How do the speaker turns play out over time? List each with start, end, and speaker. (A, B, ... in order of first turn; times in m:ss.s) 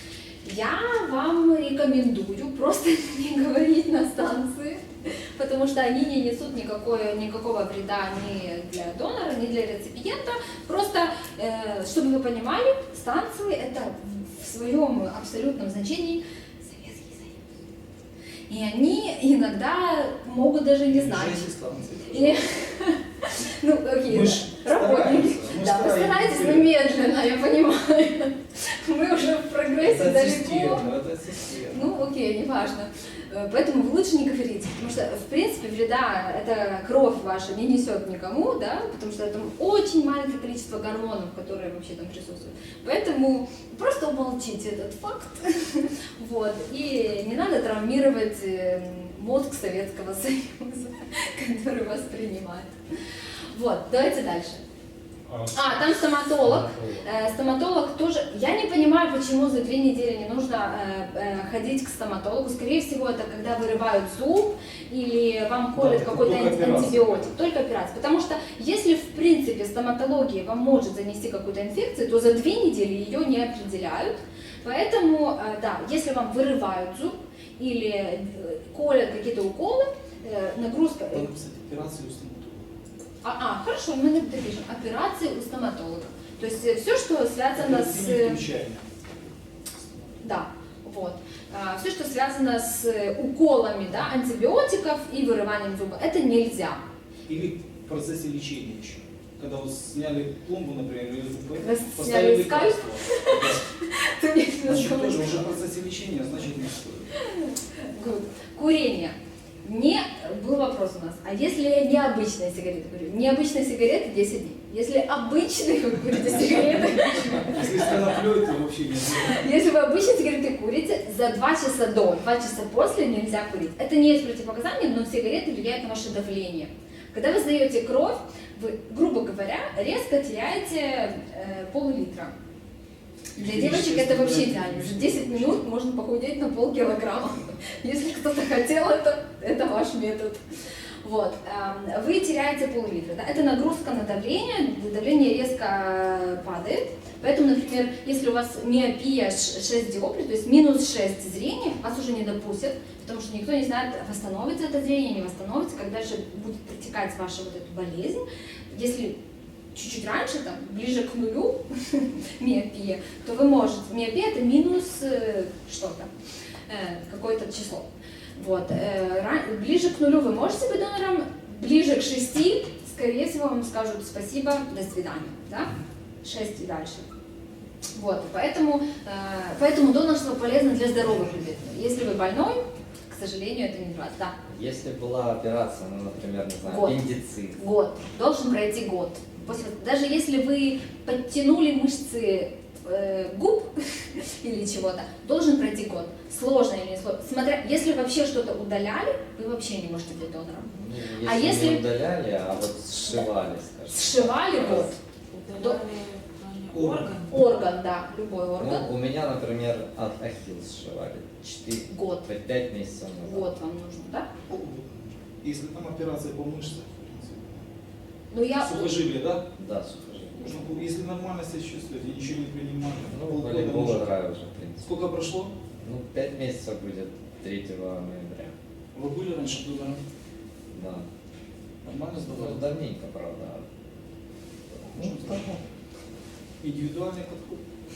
0:00.4-0:17.4 A
0:18.5-0:21.4 A
0:20.9-0:22.4 B
0:22.1-0:30.9 A
0:24.1-0:26.7 B
0:29.8-0:31.9 B
0:31.7-0:52.7 A
0:53.5-0:54.6 A
0:55.3-0:55.5 B
0:55.5-1:21.3 A
1:05.7-1:07.4 B
1:21.1-1:22.7 B
1:23.2-1:28.4 A
1:27.6-1:28.9 B
1:29.8-1:30.1 B
1:30.2-1:36.8 A
1:37.3-1:43.6 B
1:41.6-1:45.5 A
1:44.6-1:47.1 B
1:47.1-1:58.0 A
1:57.4-1:59.5 B
1:59.2-2:12.3 A
2:13.4-2:15.6 B
2:13.4-2:20.4 A
2:21.0-2:39.2 A
2:39.7-2:46.1 A
2:46.7-2:55.7 A
2:56.2-2:57.0 A
2:57.9-3:04.3 A
3:04.5-3:07.6 C
3:06.7-3:07.0 A
3:07.6-3:21.8 A
3:20.7-3:24.9 C
3:23.9-3:25.0 A
3:25.3-3:27.4 D
3:26.7-3:27.2 B
3:27.2-3:28.9 A
3:28.6-3:33.5 C
3:31.5-3:32.2 A
3:33.2-3:34.3 A
3:34.5-3:37.7 B
3:38.3-3:39.0 A
3:38.6-3:39.4 B
3:39.6-3:40.6 C
3:40.4-3:44.1 B
3:43.1-3:44.8 C
3:44.8-3:45.5 B
3:45.8-3:48.5 C
3:48.9-3:50.0 B
3:50.7-3:51.0 C
3:51.8-3:52.6 B
3:52.2-3:53.6 C
3:54.8-3:55.6 C
3:54.9-3:55.5 B
3:56.6-3:57.6 B